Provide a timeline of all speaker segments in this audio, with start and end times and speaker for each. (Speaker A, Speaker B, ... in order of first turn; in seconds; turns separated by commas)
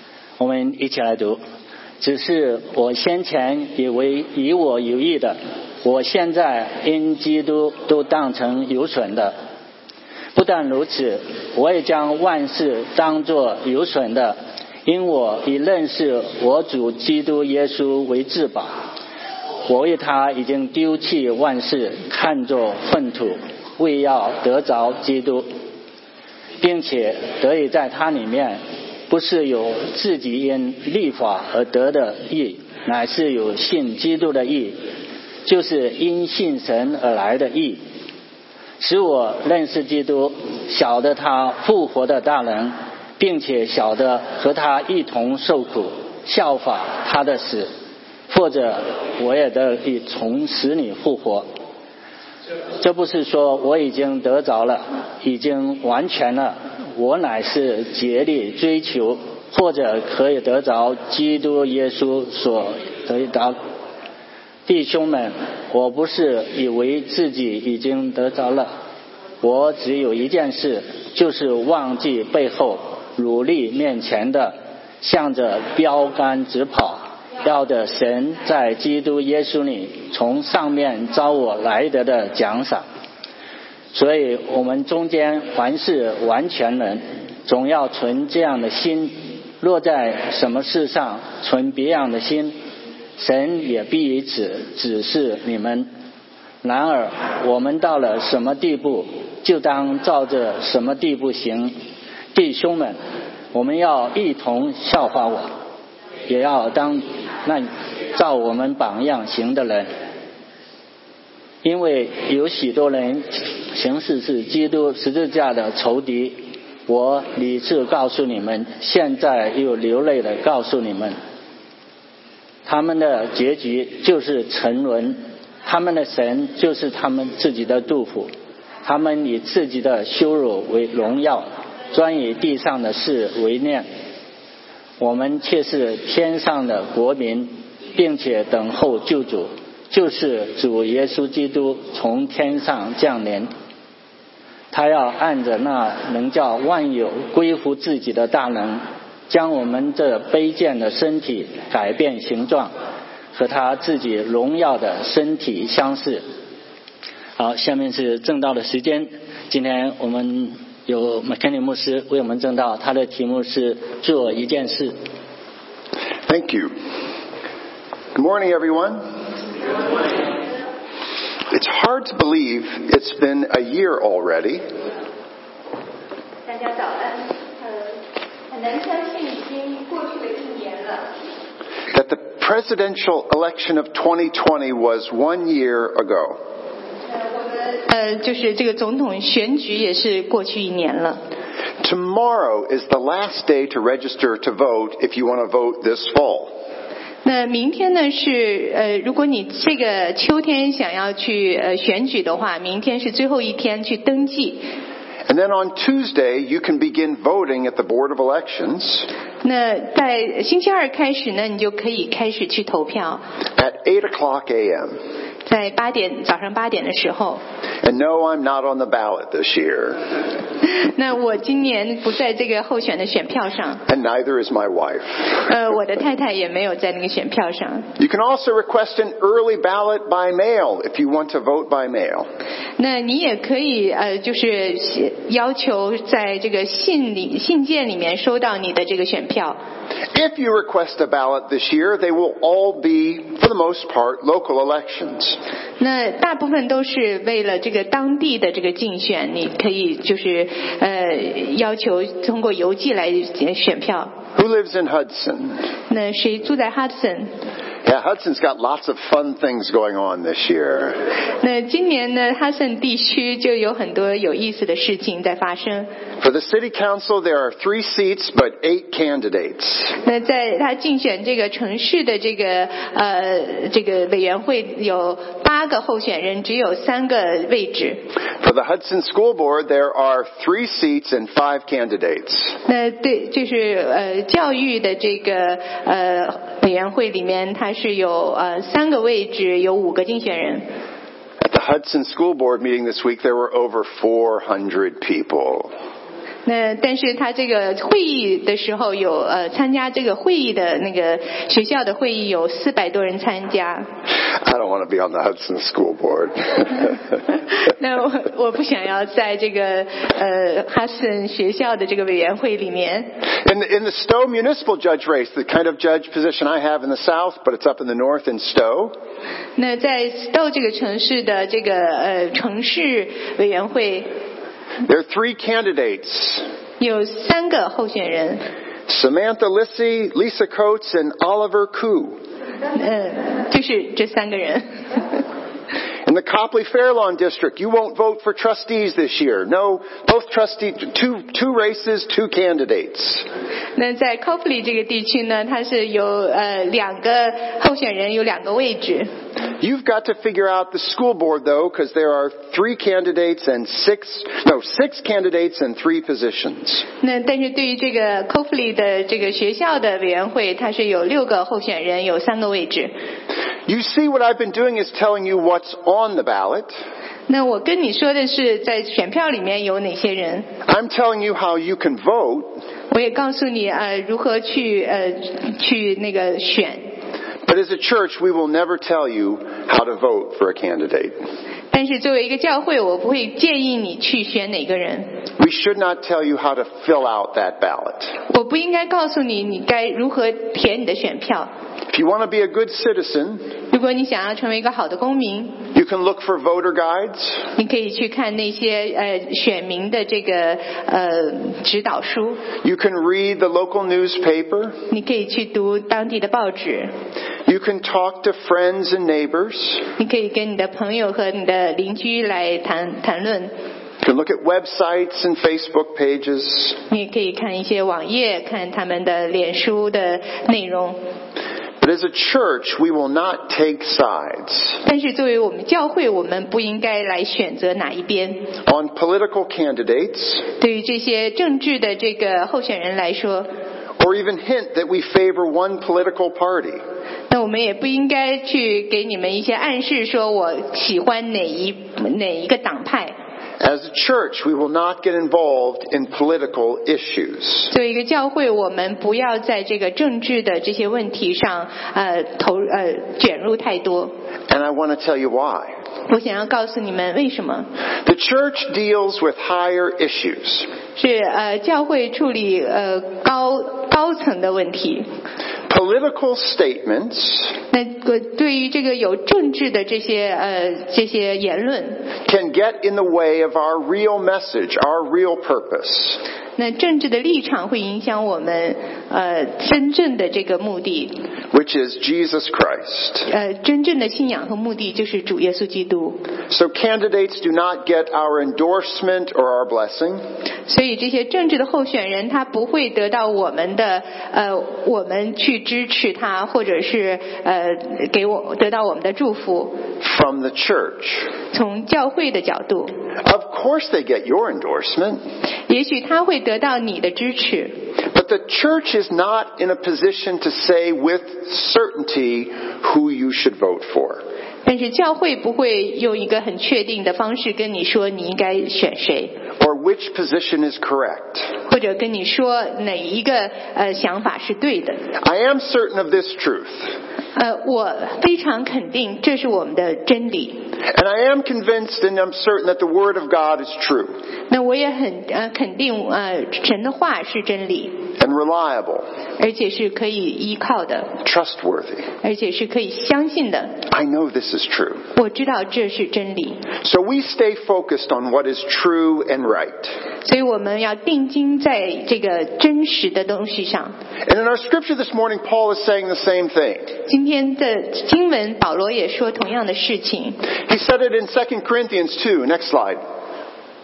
Speaker A: 0.4-1.4, Speaker A: 2.0-9.3, Speaker A: 10.3-18.8, Speaker A: 19.7-25.5, Speaker A: 26.6-34.8, Speaker A: 35.5-37.8, Speaker A: 38.8-47.7, Speaker A: 48.3-51.5, Speaker A: 52.8-63.6, Speaker A: 64.7-68.7, Speaker A: 69.4-82.8, Speaker A: 83.9-92.5, Speaker A: 93.2-95.9, Speaker A: 96.6-101.7, Speaker A: 102.3-103.0, Speaker A: 103.5-105.5, Speaker A: 106.3-109.9, Speaker A: 111.6-121.2, Speaker A: 122.7-128.3, Speaker A: 128.8-133.9, Speaker A: 135.0-143.5, Speaker A: 144.7-152.7, Speaker A: 153.3-156.2, Speaker A: 157.4-164.9, Speaker B: 166.3-166.7, Speaker B: 168.2-169.0, Speaker B: 171.5-174.6, Speaker C: 176.5-177.4, Speaker C: 178.5-181.1, Speaker B: 181.9-186.4, Speaker C: 187.7-191.2, Speaker B: 191.8-196.5, Speaker C: 197.2-204.7, Speaker B: 205.3-209.1, Speaker C: 209.4-213.2, Speaker B: 213.6-215.0, Speaker C: 215.5-217.4, Speaker B: 217.8-220.0, Speaker C: 220.6-223.8, Speaker B: 223.9-225.4, Speaker C: 225.4-227.9, Speaker B: 228.0-232.3, Speaker C: 232.8-239.6, Speaker B: 240.1-245.4, Speaker C: 245.8-254.1, Speaker B: 254.3-255.6, Speaker C: 255.9-257.3, Speaker B: 257.9-261.0, Speaker C: 261.4-265.9, Speaker B: 266.2-270.0, Speaker C: 270.0-278.0, Speaker B: 278.4-282.6, Speaker C: 282.7-290.7, Speaker B: 291.4-295.7, Speaker C: 296.5-303.9, Speaker B: 304.3-307.0, Speaker C: 307.7-313.1, Speaker B: 313.4-318.9, Speaker C: 319.6-324.1, Speaker B: 324.9-326.5, Speaker C: 326.8-328.4, Speaker B: 328.9-332.2, Speaker C: 332.7-335.2, Speaker B: 336.1-343.2, Speaker C: 343.8-349.1, Speaker B: 349.6-356.9, Speaker C: 357.0-362.9, Speaker B: 363.7-366.7, Speaker C: 367.3-370.5, Speaker B: 370.7-372.6, Speaker C: 372.9-376.9, Speaker B: 377.5-381.2, Speaker C: 381.7-385.1, Speaker B: 385.4-388.2, Speaker C: 388.3-391.5, Speaker B: 391.9-393.5, Speaker C: 393.7-395.7, Speaker B: 395.7-397.5, Speaker C: 397.6-402.4, Speaker B: 402.6-404.8, Speaker C: 404.9-406.9, Speaker B: 407.5-409.9, Speaker C: 410.0-413.5, Speaker B: 414.0-416.8, Speaker C: 416.9-421.0, Speaker B: 421.8-424.8, Speaker C: 424.8-428.5, Speaker B: 428.7-430.5, Speaker C: 430.6-433.5, Speaker B: 434.0-436.8, Speaker C: 437.3-443.1, Speaker B: 443.6-447.7, Speaker C: 447.7-454.1, Speaker B: 454.5-455.8, Speaker C: 456.1-457.7, Speaker B: 458.1-460.7, Speaker C: 461.0-465.1, Speaker B: 465.7-467.6, Speaker C: 467.7-472.1, Speaker B: 472.2-476.2, Speaker C: 476.6-481.2, Speaker B: 481.5-483.3, Speaker C: 483.3-486.2, Speaker B: 486.5-490.2, Speaker C: 490.7-499.8, Speaker B: 500.0-501.3, Speaker C: 501.5-502.9, Speaker B: 503.2-505.2, Speaker C: 505.7-507.8, Speaker B: 508.1-514.2, Speaker C: 514.6-519.4, Speaker B: 519.6-521.5, Speaker C: 521.7-525.0, Speaker B: 525.2-526.9, Speaker C: 527.4-530.6, Speaker B: 530.8-534.2, Speaker C: 534.5-538.0, Speaker B: 538.2-539.1, Speaker C: 539.4-541.1, Speaker B: 541.2-542.1, Speaker C: 542.2-543.8, Speaker B: 543.9-545.1, Speaker C: 545.1-546.7, Speaker B: 546.8-550.0, Speaker C: 550.2-554.0, Speaker B: 554.2-556.9, Speaker C: 557.1-560.5, Speaker B: 560.6-563.0